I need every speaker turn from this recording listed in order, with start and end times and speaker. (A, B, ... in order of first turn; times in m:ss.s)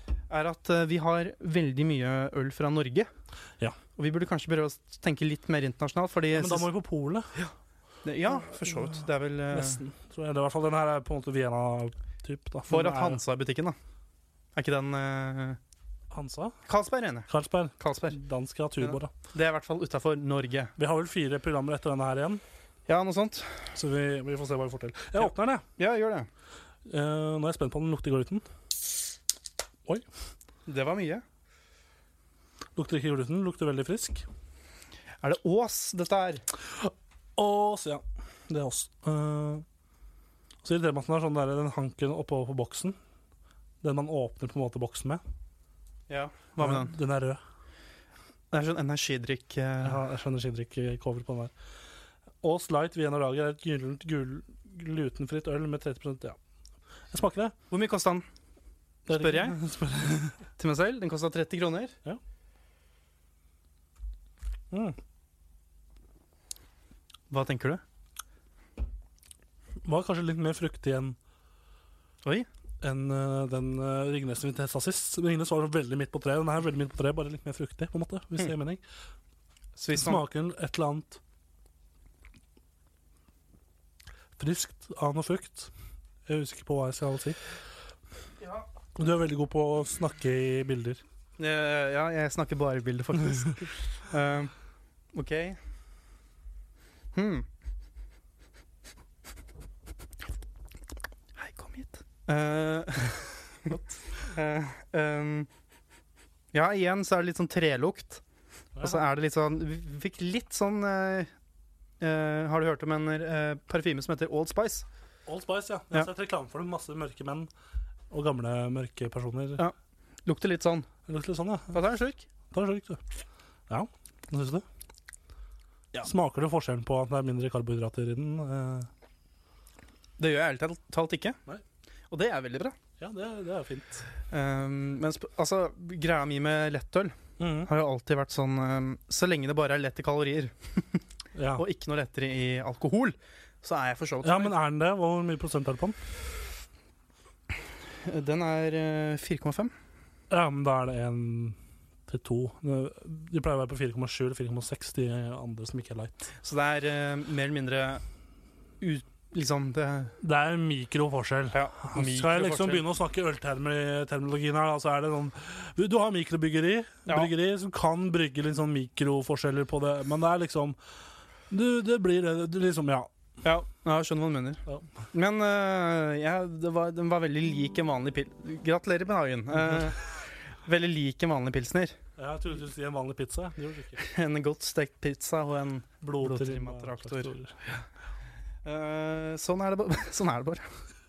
0:00.3-0:03.1 A
0:04.0-0:06.7 A
0:06.3-0:07.3 B
0:08.0-0:09.8 A
0:08.3-0:13.2 B
0:12.7-0:13.8 A
0:14.6-0:15.6 A
0:16.1-0:16.6 B
0:16.7-0:17.3 A
0:17.3-0:19.1 B
0:17.8-0:18.2 A
0:18.8-0:20.7 A
0:20.8-0:22.4 B
0:22.9-0:23.7 A
0:23.8-0:25.6 B
0:25.2-0:26.3 A
0:26.9-0:28.5 B
0:30.7-0:31.2 A
0:32.8-0:34.2 B
0:35.2-0:36.4 A
0:36.8-0:39.6 B
0:40.6-0:43.0 B
0:43.8-0:45.2 B
0:46.1-0:46.9 A
0:46.6-0:47.4 B
0:48.5-0:50.0 A
0:49.8-0:51.5 B
0:52.4-0:56.4 B
0:57.1-0:57.5 B
0:57.7-0:58.3 A
0:59.1-0:59.6 A
0:59.1-1:00.4 B
1:00.6-1:02.0 A
1:04.7-1:05.0 B
1:07.3-1:07.8 A
1:09.8-1:11.2 B
1:12.8-1:18.8 B
1:19.8-1:20.2 A
1:19.9-1:21.2 B
1:24.4-1:25.7 B
1:26.3-1:27.4 B
1:28.4-1:28.7 A
1:29.0-1:31.0 B
1:31.4-1:34.5 A
1:35.1-1:35.6 A
1:37.1-1:37.5 A
1:41.4-1:45.5 A
1:46.5-1:48.2 A
1:48.8-1:49.0 B
1:48.8-1:51.3 A
1:52.0-1:54.9 A
1:55.3-1:57.5 B
1:58.1-1:59.6 B
2:00.2-2:00.9 A
2:01.1-2:01.8 B
2:01.7-2:02.2 A
2:02.5-2:03.0 B
2:03.7-2:04.7 B
2:06.0-2:08.9 B
2:10.2-2:11.4 A
2:12.1-2:12.8 A
2:13.0-2:14.0 B
2:14.3-2:21.0 A
2:17.4-2:17.7 B
2:21.4-2:21.6 B
2:21.6-2:24.5 A
2:24.2-2:26.0 B
2:28.0-2:29.7 A
2:30.3-2:36.2 B
2:36.4-2:38.0 A
2:38.8-2:40.1 A
2:40.2-2:50.8 B
2:41.5-2:42.8 A
2:51.5-2:53.1 B
2:53.4-3:00.1 A
3:00.6-3:02.0 A
3:02.2-3:04.0 B
3:04.0-3:07.3 A
3:06.0-3:07.6 B
3:08.6-3:10.7 A